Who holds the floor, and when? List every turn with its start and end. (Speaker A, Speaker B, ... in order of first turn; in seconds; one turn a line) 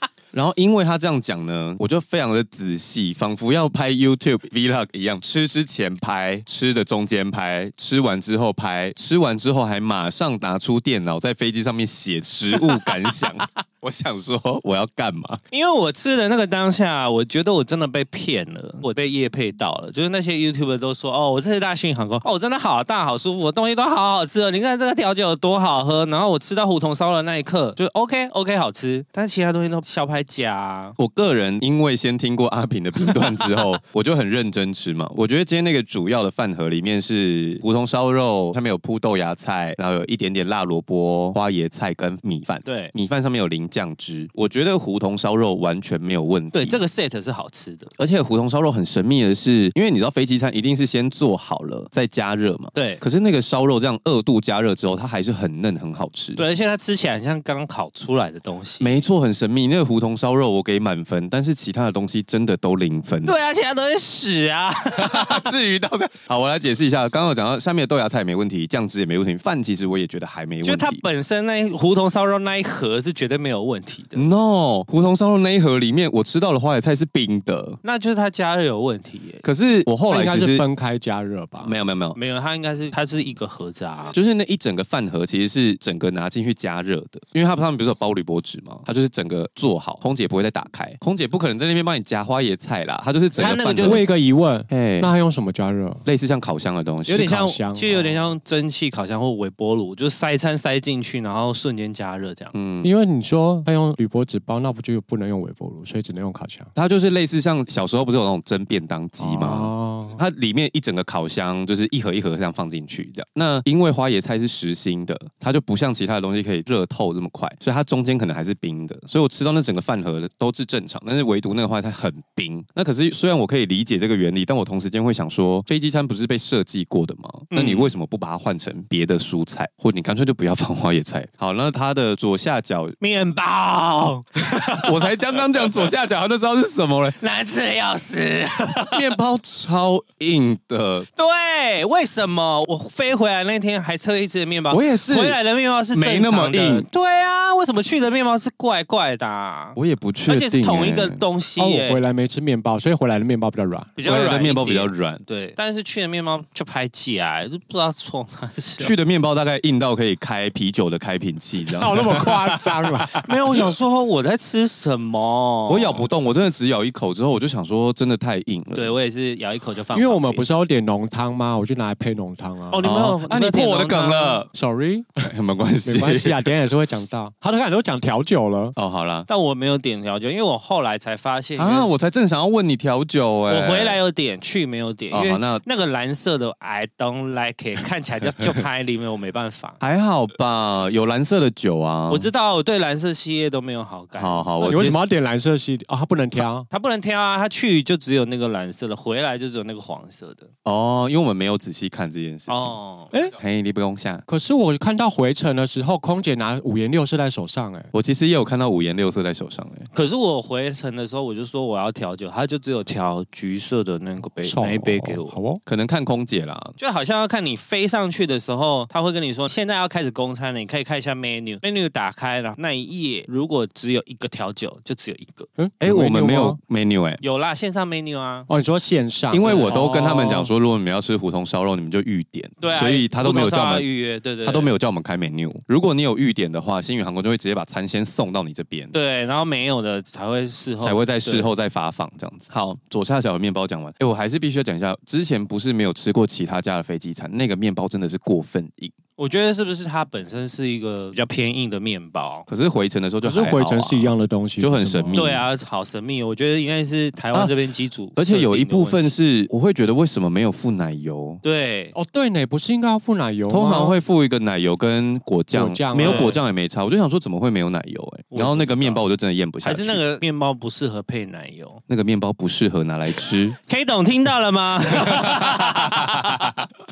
Speaker A: 0.3-15.4
Speaker B: 12.6-13.3
Speaker B: 15.5-31.0
Speaker A: 31.0-46.8
Speaker B: 33.0-33.7
Speaker B: 42.6-42.9
Speaker B: 46.5-47.9
Speaker A: 48.0-56.4
Speaker B: 52.7-53.0
Speaker B: 56.4-59.0
Speaker A: 58.8-63.3
Speaker B: 63.2-65.5
Speaker A: 65.0-71.0
Speaker B: 70.6-74.2
Speaker A: 74.2-77.8
Speaker B: 77.8-79.4
Speaker A: 79.4-80.7
Speaker C: 80.1-81.8
Speaker A: 81.6-82.2
Speaker B: 82.2-84.2
Speaker A: 84.1-94.1
Speaker B: 93.4-94.1
Speaker C: 93.8-96.0
Speaker A: 94.7-95.1
Speaker A: 96.0-97.3
Speaker B: 97.1-102.5
Speaker C: 97.1-98.2
Speaker A: 102.5-102.9
Speaker C: 102.8-106.7
Speaker A: 106.8-133.0
Speaker C: 109.2-110.2
Speaker B: 127.5-127.9
Speaker B: 133.0-135.7
Speaker A: 134.7-137.2
Speaker B: 137.2-139.2
Speaker A: 138.9-141.1
Speaker B: 141.2-152.0
Speaker A: 144.7-145.4
Speaker A: 145.9-146.9
Speaker A: 149.8-151.2
Speaker C: 151.6-154.0
Speaker B: 154.0-158.9
Speaker A: 154.0-155.2
Speaker A: 158.8-162.8
Speaker C: 161.7-163.3
Speaker B: 163.2-166.1
Speaker A: 165.7-169.0
Speaker B: 168.7-170.4
Speaker C: 169.9-172.9
Speaker B: 172.7-174.4
Speaker A: 172.8-174.5
Speaker C: 174.5-175.3
Speaker A: 175.2-176.4
Speaker C: 175.8-178.8
Speaker A: 178.8-179.3
Speaker B: 179.3-181.9
Speaker A: 181.6-184.0
Speaker B: 183.5-189.8
Speaker A: 185.1-185.6
Speaker A: 189.8-192.3
Speaker B: 192.1-195.0
Speaker A: 194.2-195.0
Speaker C: 194.6-196.7
Speaker B: 196.7-200.5
Speaker A: 200.7-204.2
Speaker B: 202.5-203.1
Speaker C: 204.3-207.9
Speaker A: 207.9-209.9
Speaker B: 209.9-215.4
Speaker C: 214.4-215.6
Speaker A: 215.7-216.8
Speaker B: 216.8-225.5
Speaker C: 225.6-226.6
Speaker A: 225.8-227.2
Speaker B: 227.2-228.5
Speaker C: 228.5-230.5
Speaker A: 229.3-233.9
Speaker B: 229.4-229.9
Speaker B: 232.6-234.7
Speaker A: 234.4-238.9
Speaker B: 238.9-241.5
Speaker A: 240.8-248.9
Speaker B: 249.2-252.5
Speaker A: 252.5-255.4
Speaker C: 253.2-255.4
Speaker B: 255.2-259.1
Speaker A: 258.2-261.4
Speaker B: 261.4-261.9
Speaker C: 261.9-264.0
Speaker A: 263.5-270.0
Speaker C: 265.5-266.4
Speaker B: 266.0-266.4
Speaker B: 268.3-269.0
Speaker B: 269.6-271.8
Speaker A: 271.9-273.6
Speaker B: 273.6-276.6
Speaker A: 275.0-276.7